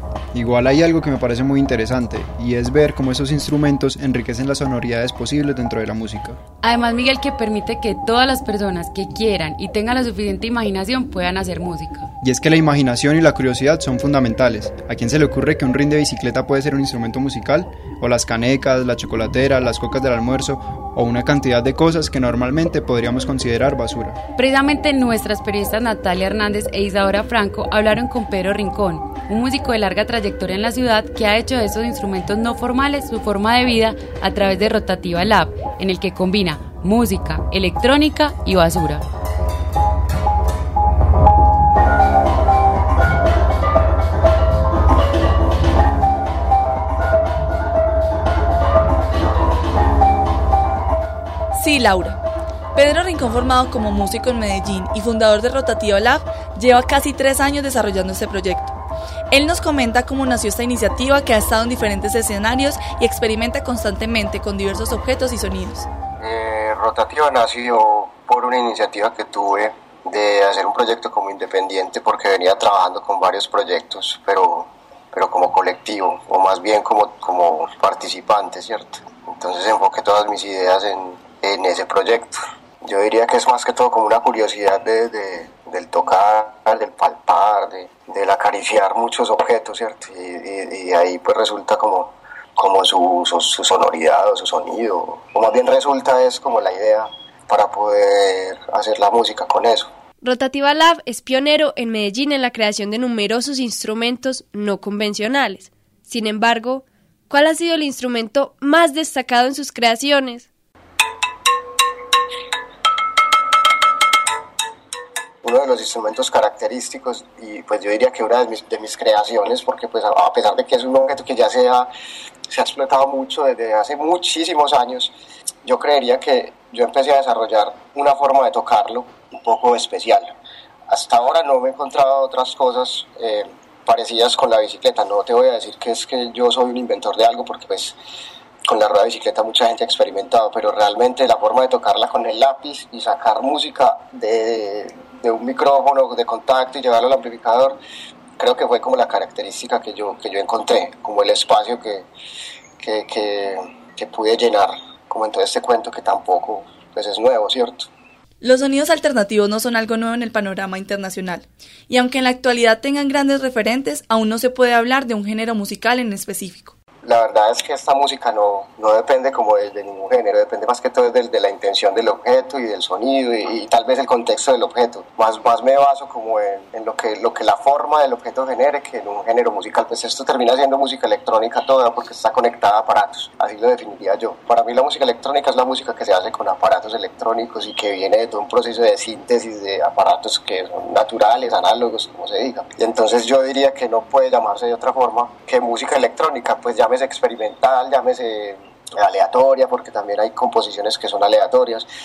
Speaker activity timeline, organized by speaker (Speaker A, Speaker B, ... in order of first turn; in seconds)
Speaker A: 0.3-6.4, 12.2-24.2
Speaker B: 6.6-12.1, 24.4-39.0
Speaker C: 51.5-52.2, 52.8-58.8, 59.3-65.9, 158.4-166.7
Speaker D: 66.2-99.9, 115.4-121.9, 122.5-125.1, 125.7-130.3, 130.9-138.0, 138.7-147.8, 148.4-152.1, 152.8-157.9, 167.0-201.9
Speaker E: 100.2-110.5